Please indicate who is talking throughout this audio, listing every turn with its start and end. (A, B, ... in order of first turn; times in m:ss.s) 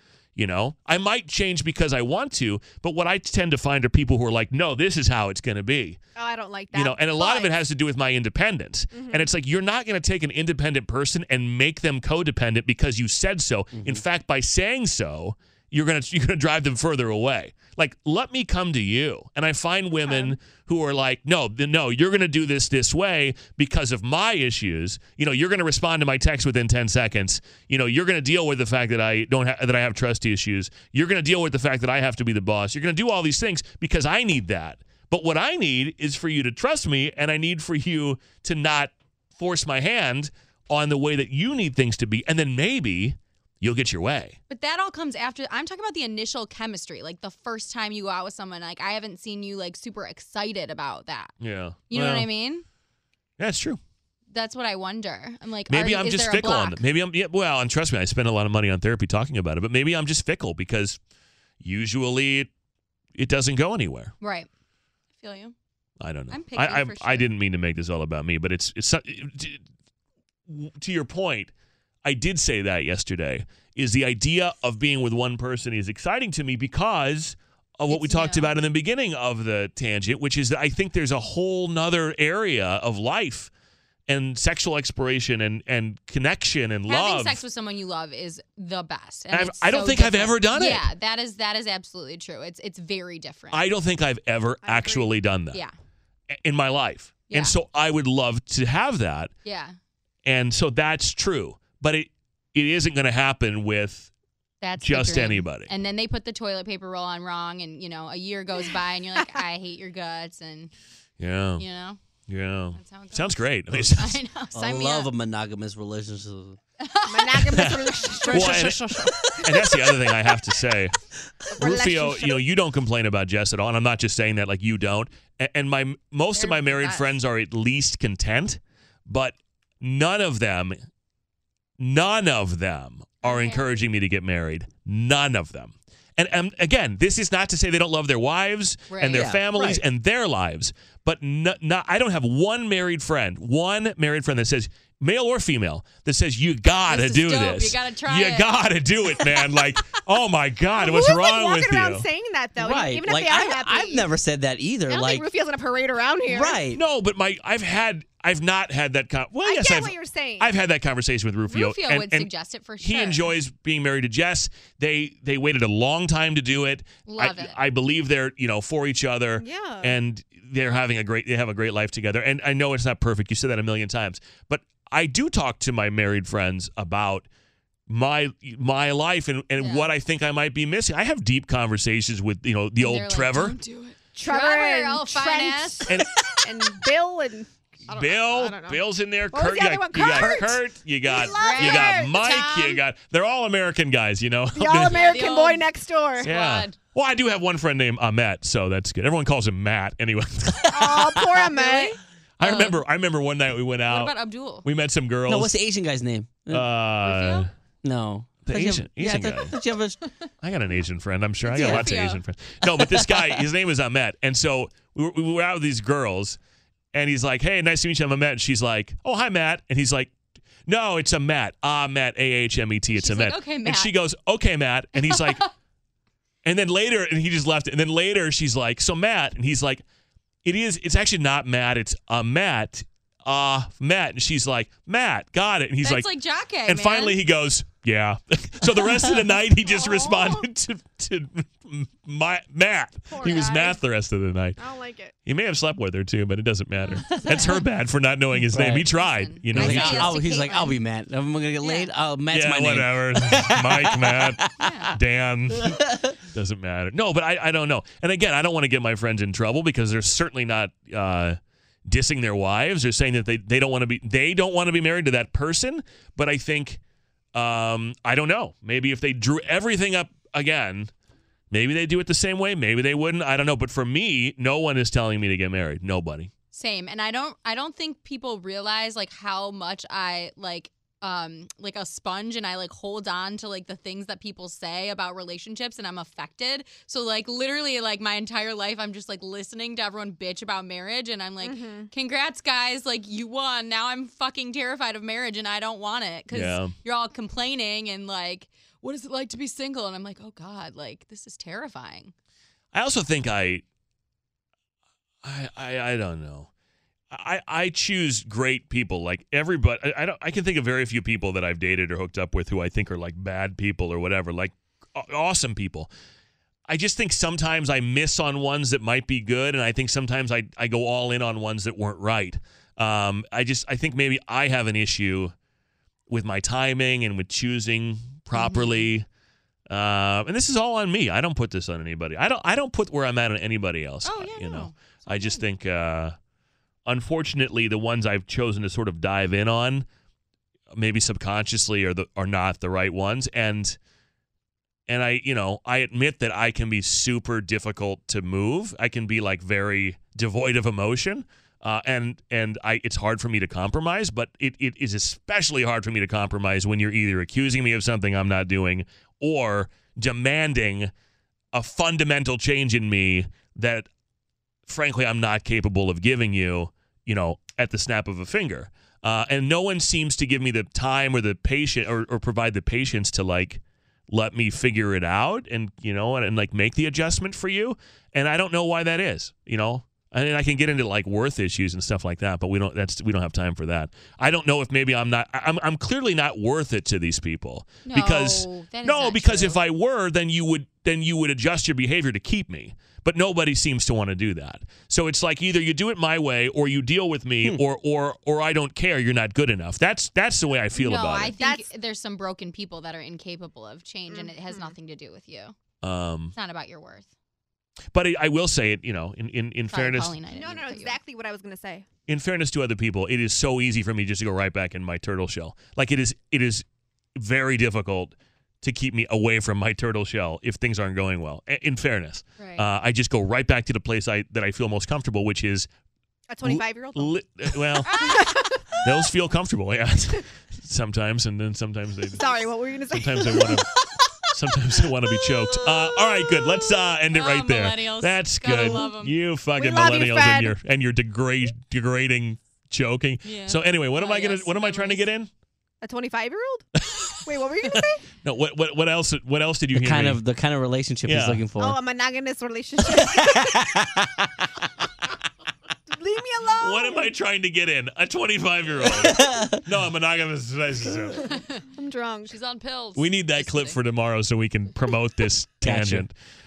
0:00.4-0:06.0 A
0:06.2-0:07.5 B
0:06.7-0:44.4 A
0:08.9-0:09.3 B
0:13.7-0:14.0 C
0:20.0-0:20.4 D
0:44.5-0:51.3 D
0:51.4-0:52.3 A
0:51.9-0:52.6 D
0:53.4-0:53.8 A
0:54.3-0:56.8 D
0:55.7-1:01.0 A
1:01.6-1:02.5 A
1:03.2-1:04.1 A
1:04.2-1:04.5 D
1:05.2-1:05.5 D
1:06.0-1:09.6 A
1:06.3-1:07.3 D
1:10.5-1:11.5 A
1:12.0-1:23.5 A
1:17.9-1:18.5 D
1:24.1-1:27.4 A
1:26.9-1:33.6 D
1:29.3-1:30.9 A
1:33.5-1:35.6 A
1:34.6-1:35.1 B
1:36.4-1:39.3 A
1:39.4-1:39.7 D
1:40.2-1:44.1 A
1:44.6-1:50.7 D
1:44.8-1:45.7 A
1:51.2-1:51.6 A
1:51.6-1:52.0 D
1:52.3-1:54.2 A
1:52.7-1:55.1 D
1:54.5-1:56.6 C
1:56.8-1:57.8 D
1:57.1-1:59.7 B
1:57.5-2:00.9 A
2:01.5-2:02.5 B
2:01.6-2:10.8 A
2:06.4-2:07.0 D
2:11.8-2:32.1 A
2:13.2-2:13.7 D
2:18.9-2:19.3 D
2:19.1-2:19.8 C
2:26.9-2:28.5 D
2:30.7-2:34.1 B
2:32.6-2:35.3 C
2:34.9-2:36.6 B
2:36.2-2:36.8 C
2:36.7-2:42.3 A
2:39.4-2:40.5 B
2:41.5-2:43.3 D
2:42.8-2:57.2 A
2:47.1-2:47.6 D
2:49.4-2:50.0 B
2:57.9-3:03.6 A
2:59.6-2:59.9 D
3:02.8-3:05.9 D
3:04.1-3:12.7 B
3:05.9-3:06.2 A
3:07.9-3:15.2 A
3:11.3-3:12.7 D
3:14.5-3:16.3 B
3:14.9-3:15.7 D
3:16.2-3:16.8 D
3:16.2-3:21.1 A
3:20.7-3:22.0 B
3:21.5-3:22.8 D
3:22.4-3:25.5 A
3:23.9-3:24.6 D
3:25.3-3:26.7 C
3:26.5-3:27.5 A
3:27.0-3:27.5 D
3:27.8-3:30.0 C
3:28.4-3:29.5 A
3:30.4-3:36.4 A
3:31.4-3:32.2 D
3:31.6-3:31.9 C
3:32.6-3:33.4 C
3:36.9-3:40.1 A
3:40.6-3:45.4 A
3:42.9-3:43.9 D
3:45.0-3:45.5 D
3:46.4-3:49.8 A
3:50.4-4:04.6 A
3:55.8-3:57.2 D
3:59.6-4:00.4 B
4:03.1-4:03.8 B
4:04.6-4:05.1 B
4:05.2-4:10.1 A
4:06.9-4:07.6 D
4:08.5-4:08.9 C
4:09.0-4:10.7 D
4:09.5-4:14.9 C
4:09.6-4:10.8 B
4:11.6-4:11.9 D
4:12.3-4:14.4 A
4:14.6-4:14.9 D
4:14.9-4:26.8 A
4:15.5-4:16.2 C
4:27.3-4:30.9 A
4:31.5-4:36.3 A
4:36.5-5:02.1 D
4:51.4-4:51.9 B
4:56.3-4:56.7 A
5:02.7-5:03.6 A
5:05.2-5:06.5 A
5:07.1-5:15.9 A
5:16.7-5:25.3 A
5:26.1-5:29.0 A
5:28.3-5:28.9 D
5:29.7-5:36.1 A
5:34.0-5:35.4 D
5:36.8-5:39.9 A
5:40.7-5:43.8 A
5:44.9-6:00.9 A
6:01.5-6:03.9 A
6:04.7-6:41.4 A
6:27.8-6:29.6 D
6:40.7-6:45.5 D
6:41.4-6:41.7 B
6:44.1-6:44.7 B
6:45.8-6:46.3 A
6:46.3-6:47.1 D
6:47.9-6:50.2 A
6:49.7-6:51.0 D
6:50.3-6:51.9 B
6:52.1-6:56.6 A
6:57.2-7:05.7 A
7:02.4-7:02.6 D
7:06.3-7:08.9 B
7:06.4-7:08.2 A
7:07.8-7:08.2 D
7:08.8-7:12.2 A
7:12.1-7:14.0 B
7:12.9-7:13.7 A
7:14.3-7:25.3 A
7:17.1-7:19.1 D
7:19.6-7:20.6 B
7:23.2-7:25.1 D
7:25.8-7:26.6 B
7:27.2-7:28.0 B
7:28.2-7:30.2 A
7:29.7-7:31.8 C
7:31.0-7:31.4 A
7:31.6-7:33.7 B
7:32.9-7:34.2 C
7:35.9-7:37.1 B
7:36.6-7:41.3 A
7:38.8-7:39.6 C
7:41.2-7:42.4 B
7:41.2-7:41.6 D
7:42.3-7:43.8 D
7:43.0-7:46.1 A
7:45.6-7:46.0 C